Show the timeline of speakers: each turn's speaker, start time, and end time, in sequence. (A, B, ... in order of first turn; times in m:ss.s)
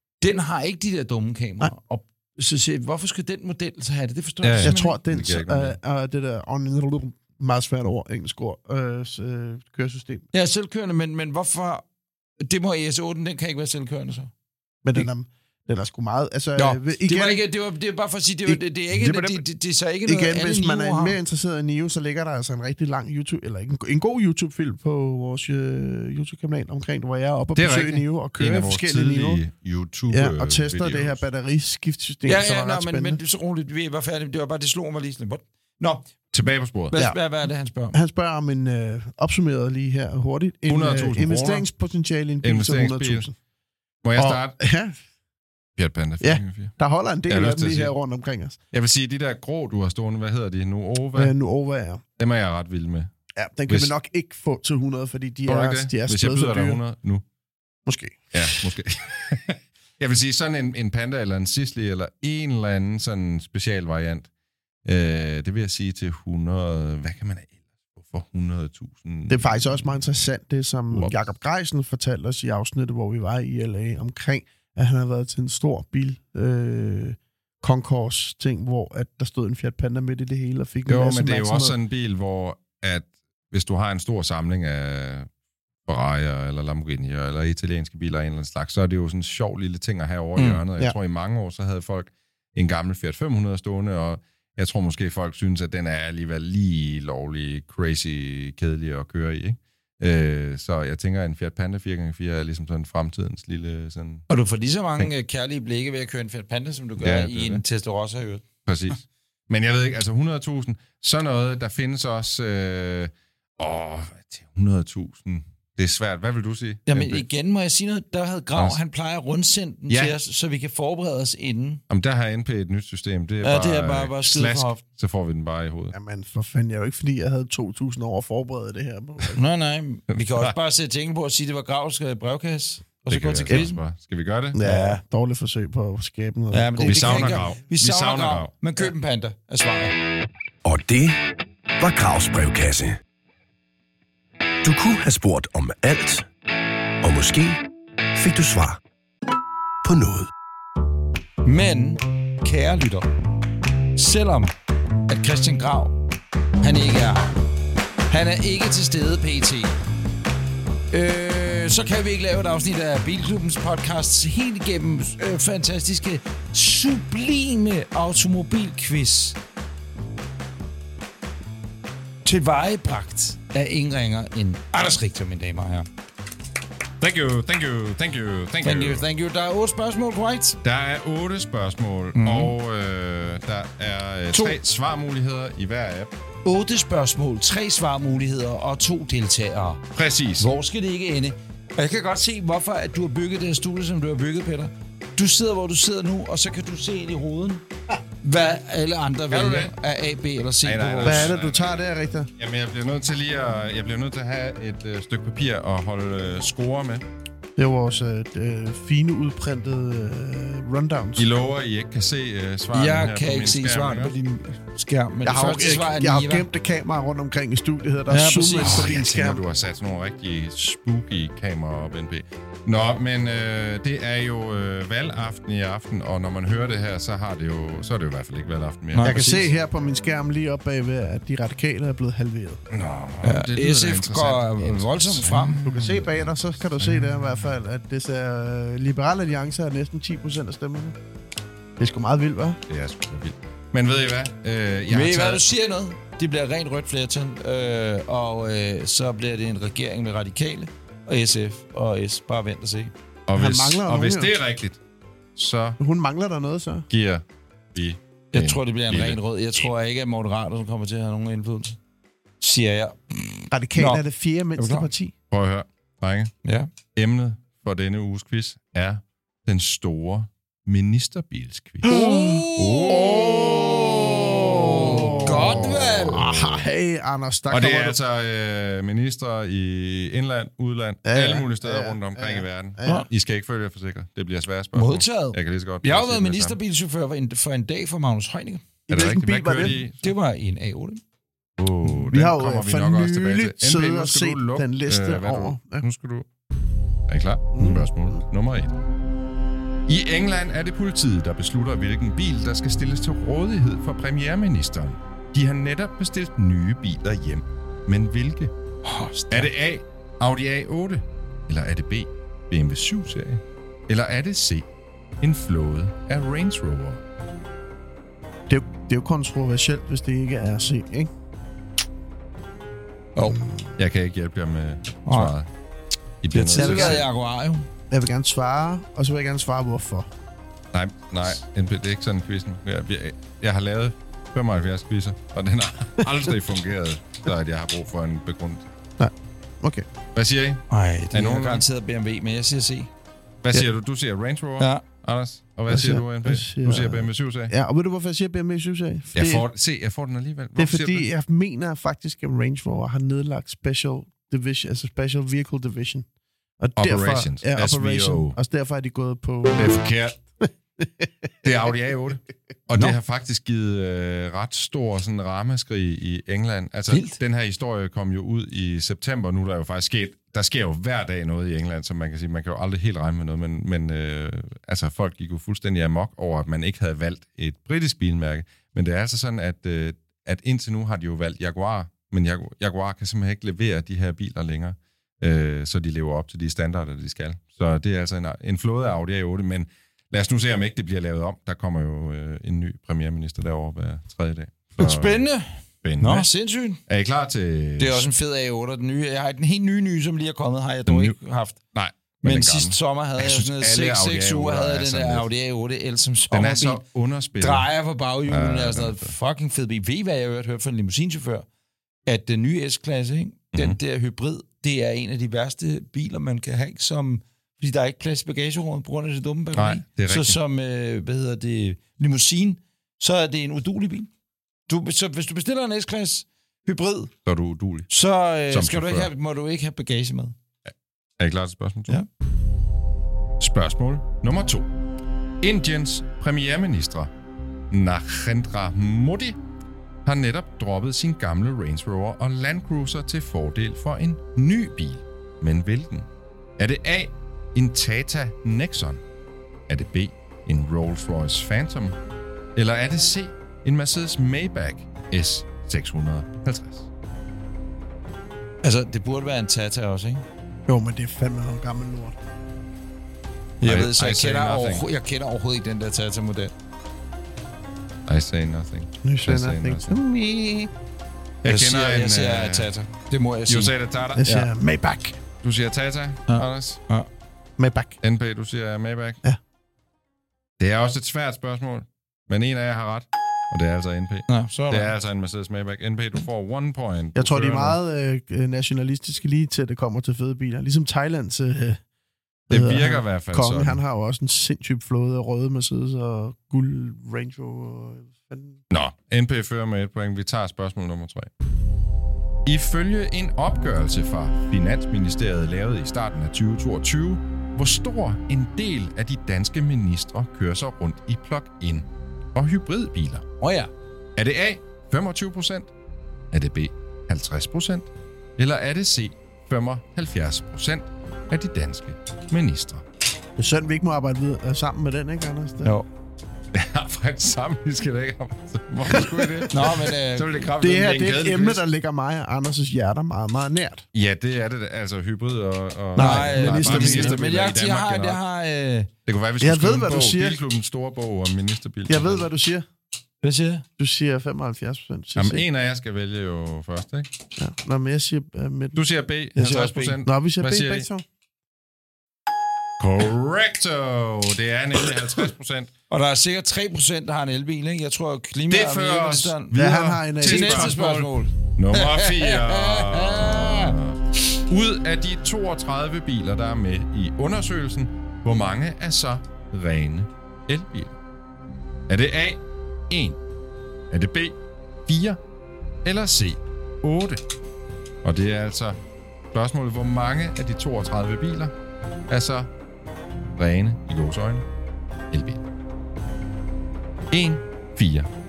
0:00.2-0:05.0 A
0:04.4-0:05.8 B
0:04.6-0:10.3 C
0:10.3-0:11.8 A
0:12.4-0:14.3 A
0:14.8-0:17.4 C
0:16.6-0:21.2 A
0:18.5-0:19.4 C
0:20.0-0:29.4 C
0:27.6-0:31.2 B
0:30.1-0:33.2 C
0:32.3-0:36.1 A
0:36.3-0:37.0 B
0:36.9-0:38.0 A
0:37.9-0:43.4 C
0:40.7-0:41.7 B
0:42.4-0:43.3 B
0:44.0-0:44.6 B
0:44.2-0:45.0 C
0:45.8-0:46.7 B
0:46.2-0:48.6 C
0:47.3-0:47.9 B
0:48.7-0:51.3 B
0:51.2-0:52.0 C
0:52.2-0:53.1 B
0:53.4-0:56.8 C
0:55.5-0:57.2 B
0:57.9-0:58.7 C
0:58.3-1:04.3 B
1:04.8-1:10.0 B
1:09.3-1:21.8 C
1:20.9-1:25.3 B
1:25.9-1:44.3 B
1:30.4-1:30.6 A
1:44.3-1:48.4 A
1:47.0-1:47.6 B
1:48.7-1:57.2 B
1:56.9-2:01.8 A
1:59.9-2:00.2 B
2:01.9-2:06.0 B
2:03.4-2:04.8 A
2:05.9-2:09.4 C
2:09.4-2:13.8 A
2:10.1-2:10.5 B
2:13.1-2:14.6 B
2:14.5-2:17.4 C
2:14.6-2:15.0 A
2:16.5-2:20.0 A
2:16.8-2:18.5 B
2:20.6-2:23.0 D
2:24.6-2:26.3 D
2:27.0-2:27.6 D
2:28.2-2:28.8 D
2:29.8-2:30.3 D
2:31.4-2:33.1 A
2:34.0-2:34.5 A
2:35.1-2:36.0 A
2:36.6-2:37.3 A
2:38.1-2:39.7 A
2:40.9-2:49.4 A
2:52.2-2:55.9 A
2:57.0-2:59.0 B
2:58.6-3:00.6 A
3:00.6-3:06.1 B
3:02.2-3:02.5 A
3:04.3-3:04.6 A
3:06.4-3:09.8 A
3:09.9-3:10.5 B
3:10.4-3:17.6 A
3:18.2-3:21.3 A
3:19.3-3:19.7 B
3:20.6-3:21.8 B
3:21.0-3:22.3 C
3:22.4-3:27.0 B
3:27.6-3:31.3 C
3:31.2-3:34.1 B
3:32.7-3:36.5 A
3:35.2-3:39.4 C
3:38.1-3:39.0 A
3:38.6-3:49.3 B
3:48.9-3:49.5 A
3:49.0-3:52.6 C
3:52.7-3:56.3 B
3:53.2-3:55.6 A
3:55.6-4:01.0 C
3:56.8-3:57.5 B
4:01.8-4:02.6 C
4:02.7-4:05.4 B
4:04.9-4:12.9 A
4:13.3-4:14.8 B
4:13.4-4:14.3 C
4:15.4-4:15.8 B
4:15.8-4:16.9 C
4:16.9-4:19.2 B
4:18.3-4:21.8 A
4:22.4-4:24.0 A
4:23.5-4:25.1 C
4:24.6-4:24.9 A
4:25.3-4:26.3 B
4:26.4-4:26.7 A
4:26.9-4:32.0 B
4:31.8-4:36.4 A
4:31.8-4:38.0 C
4:32.6-4:36.7 B
4:37.5-4:46.6 B
4:41.0-4:43.0 C
4:44.7-4:48.7 A
4:48.9-4:50.1 B
4:48.9-4:49.8 C
4:50.0-4:51.0 A
4:51.6-4:56.3 B
4:51.8-4:55.9 C
4:57.1-4:58.7 B
4:57.6-4:57.9 C
4:59.9-5:08.5 B
5:08.8-5:09.5 A
5:09.3-5:14.6 B
5:15.2-5:17.0 B
5:18.5-5:21.1 C
5:23.2-5:23.4 A
5:23.8-5:25.5 B
5:25.1-5:25.4 A
5:26.2-5:27.1 B
5:26.3-5:27.7 A
5:26.6-5:27.0 C
5:27.9-5:30.1 C
5:30.7-5:38.7 B
5:39.0-5:39.9 C
5:40.2-5:41.6 B
5:40.7-5:42.9 A
5:43.4-5:47.5 B
5:44.6-5:44.8 A
5:45.7-5:49.4 C
5:49.1-5:51.1 B
5:50.6-5:56.1 C
5:56.6-5:59.8 C
5:56.8-5:58.4 B
5:59.6-6:00.2 B
6:00.8-6:01.1 C
6:01.4-6:35.2 B
6:06.9-6:07.2 A
6:34.8-6:36.8 A
6:35.8-6:36.3 B
6:36.9-6:38.1 B
6:37.8-6:41.6 A
6:40.9-6:41.2 B
6:41.7-6:45.3 B
6:42.2-6:46.8 A
6:46.3-6:47.7 B
6:47.4-6:51.5 A
6:48.3-6:49.1 B
6:52.1-7:04.1 A
6:59.6-7:00.4 B
7:04.7-7:07.1 A
7:07.2-7:07.9 B
7:07.9-7:10.4 A
7:08.5-7:09.1 B
7:11.2-7:12.0 B
7:13.4-7:14.7 B
7:15.4-7:17.1 B
7:17.7-7:19.4 B
7:20.1-7:26.1 B
7:26.6-7:29.0 B
7:29.7-7:32.0 B
7:32.6-7:36.9 B
7:38.6-7:40.2 A
7:40.7-7:42.2 C
7:43.6-7:46.5 A
7:43.6-7:44.9 B
7:48.1-7:50.0 B
7:49.0-7:50.7 C
7:51.4-7:52.7 B
7:51.4-7:53.7 A
7:53.5-7:54.5 B
7:54.2-7:55.2 C
7:55.4-7:56.8 B
7:56.3-7:57.1 A
7:57.6-7:58.0 C
7:58.0-7:59.2 B
8:00.6-8:07.8 B
8:04.3-8:04.9 A
8:07.2-8:11.8 C
8:12.5-8:13.8 B
8:12.5-8:18.6 C
8:18.7-8:21.3 B
8:22.4-8:33.2 B
8:33.4-8:33.7 A
8:34.2-8:35.7 B
8:36.3-8:42.8 B
8:43.4-8:45.7 C
8:46.5-8:51.6 B
8:49.5-8:50.4 A
8:50.6-8:53.9 C
8:53.9-8:58.2 B
8:56.0-8:57.2 C
8:56.0-8:58.9 A
8:59.1-9:02.3 B
8:59.4-9:00.4 C
9:01.9-9:02.7 C
9:03.2-9:03.6 A
9:03.8-9:05.4 C
9:05.2-9:07.1 B
9:07.4-9:08.8 C
9:08.8-9:10.9 B
9:09.4-9:11.0 C
9:09.4-9:10.0 A
9:12.8-9:15.7 B
9:15.9-9:19.6 A
9:18.5-9:31.0 B
9:19.5-9:21.0 C
9:20.2-9:23.8 A
9:31.9-9:33.2 B
9:33.9-9:34.4 B
9:34.9-9:35.2 B
9:35.8-9:37.2 B
9:38.0-9:38.8 B
9:39.3-9:41.5 B
9:42.1-9:42.5 B
9:43.4-9:44.5 B
9:45.1-9:45.4 B
9:47.1-9:48.1 B